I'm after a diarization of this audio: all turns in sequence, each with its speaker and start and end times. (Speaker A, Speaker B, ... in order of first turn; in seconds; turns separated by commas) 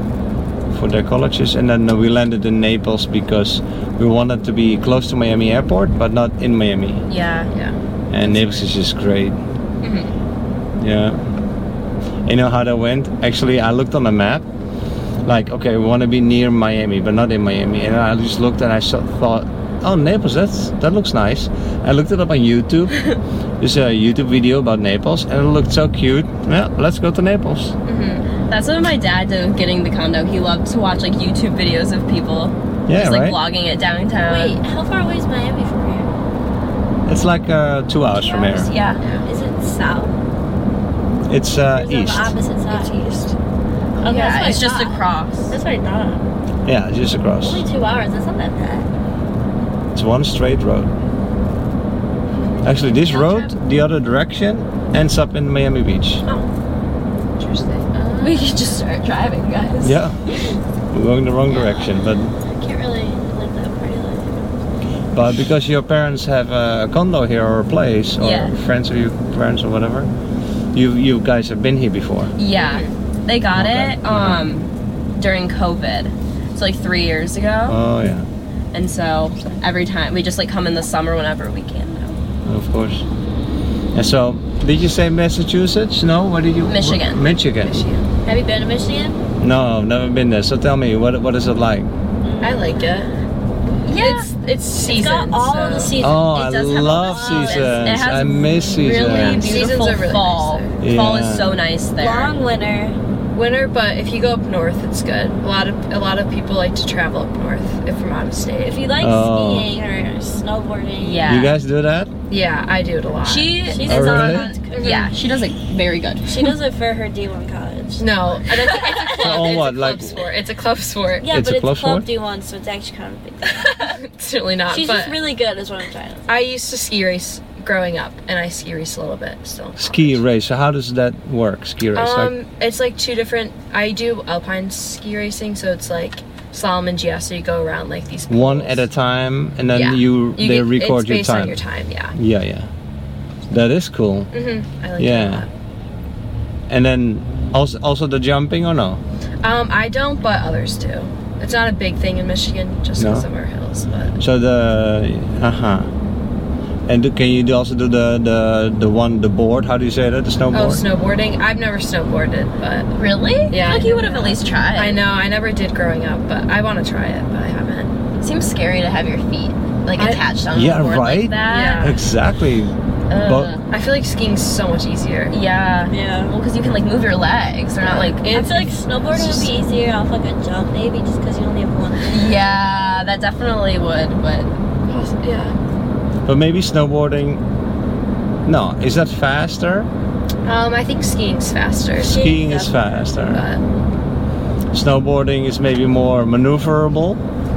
Speaker A: 0.7-7.1, Speaker B: 7.1-7.5, Speaker C: 7.5-8.7, Speaker A: 8.1-9.4, Speaker C: 9.8-10.2, Speaker A: 10.8-11.2, Speaker A: 12.3-14.4, Speaker A: 15.3-23.1, Speaker A: 23.6-27.8, Speaker C: 27.9-28.3, Speaker B: 28.5-34.6, Speaker A: 32.9-33.4, Speaker D: 34.2-36.1, Speaker A: 37.1-38.7, Speaker B: 38.3-39.0, Speaker C: 39.0-39.3, Speaker D: 39.2-40.2, Speaker A: 41.3-42.4, Speaker D: 41.7-43.3, Speaker C: 42.7-43.4, Speaker B: 44.0-45.5, Speaker D: 44.0-46.2, Speaker A: 46.7-47.6, Speaker D: 47.4-48.9, Speaker A: 49.9-50.9, Speaker C: 52.3-52.7, Speaker A: 52.6-56.2, Speaker B: 53.1-53.5, Speaker C: 57.4-58.5, Speaker B: 58.2-60.0, Speaker A: 59.8-60.2, Speaker A: 60.9-62.3, Speaker D: 61.5-61.8, Speaker D: 62.4-64.5, Speaker A: 65.1-70.1, Speaker B: 68.2-68.5, Speaker A: 70.7-72.3, Speaker B: 72.4-77.8, Speaker C: 72.5-72.9, Speaker A: 73.5-74.5, Speaker A: 77.7-78.3, Speaker B: 78.7-82.2, Speaker A: 82.5-83.1, Speaker A: 83.9-87.8, Speaker B: 86.7-87.2, Speaker C: 87.6-88.0, Speaker D: 88.2-89.2, Speaker A: 89.4-91.9, Speaker D: 92.2-92.8, Speaker C: 92.4-93.1, Speaker B: 93.8-94.3, Speaker C: 93.9-96.0, Speaker D: 94.8-96.3, Speaker A: 96.0-99.6, Speaker B: 96.2-102.3, Speaker D: 96.9-98.0, Speaker C: 99.0-100.8, Speaker A: 100.8-101.5, Speaker D: 102.0-103.0, Speaker C: 103.3-108.8, Speaker D: 108.6-111.4, Speaker A: 109.0-109.7, Speaker B: 111.0-111.5, Speaker A: 111.2-112.1, Speaker C: 112.3-113.6, Speaker B: 113.2-116.6, Speaker D: 113.7-115.1, Speaker A: 113.8-114.5, Speaker C: 114.7-115.1, Speaker D: 116.2-119.6, Speaker C: 118.0-121.3, Speaker A: 119.2-120.3, Speaker D: 121.2-123.7, Speaker A: 121.3-122.1, Speaker B: 123.5-123.9, Speaker C: 124.0-125.2, Speaker D: 124.7-126.3, Speaker C: 126.3-130.2, Speaker A: 129.8-132.3, Speaker C: 131.9-138.8, Speaker A: 138.3-141.6, Speaker C: 139.7-142.2, Speaker A: 142.2-142.7, Speaker A: 143.5-144.3, Speaker C: 144.3-145.5, Speaker A: 145.0-145.5, Speaker A: 146.7-149.0, Speaker C: 149.4-154.2, Speaker A: 153.0-153.3, Speaker A: 154.2-155.9, Speaker A: 156.9-160.8, Speaker C: 160.5-162.9, Speaker B: 163.0-165.0, Speaker C: 163.5-167.9, Speaker B: 168.2-172.0, Speaker C: 169.9-170.2, Speaker A: 170.5-173.5, Speaker C: 171.5-172.0, Speaker B: 173.1-173.6, Speaker C: 173.7-175.4, Speaker B: 175.3-178.2, Speaker D: 175.9-176.3, Speaker C: 177.8-179.6, Speaker D: 178.3-183.0, Speaker B: 182.1-184.5, Speaker C: 184.9-185.6, Speaker A: 186.3-187.4, Speaker A: 188.5-189.9, Speaker C: 190.4-192.2, Speaker A: 192.0-193.5, Speaker D: 192.0-193.0, Speaker C: 193.3-193.6, Speaker A: 194.7-197.2